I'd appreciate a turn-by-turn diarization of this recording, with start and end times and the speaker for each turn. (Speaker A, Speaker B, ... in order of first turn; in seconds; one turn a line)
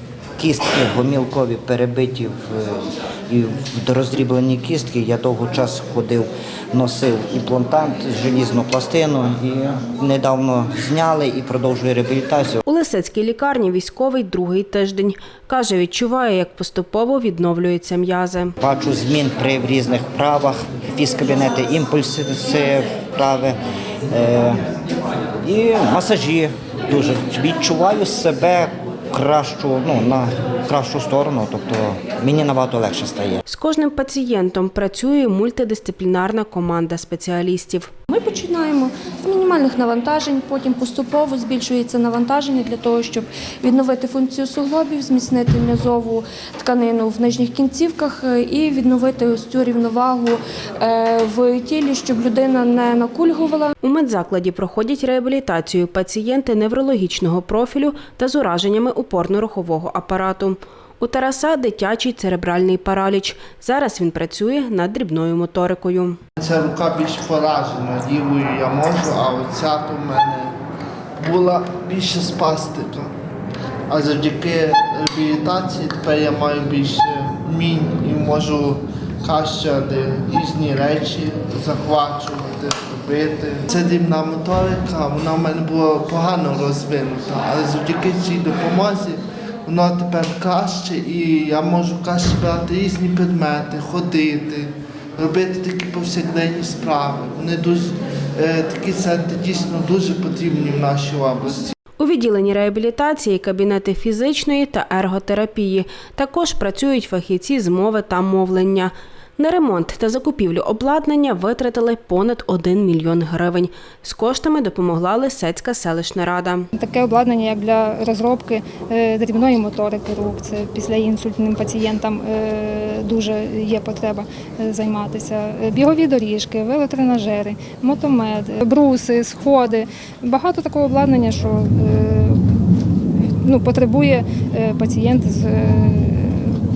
Speaker A: 0.4-12.6
Speaker B: 12.7-18.6
Speaker A: 18.6-23.6
Speaker A: 24.1-24.6
Speaker A: 25.4-33.4
Speaker B: 33.5-37.9
Speaker C: 38.1-53.6
Speaker B: 53.8-66.2
Speaker D: 66.4-70.5
Speaker D: 71.2-73.1
Speaker D: 73.9-101.7
Speaker B: 102.0-116.7
Speaker E: 116.8-132.4
Speaker E: 133.4-136.4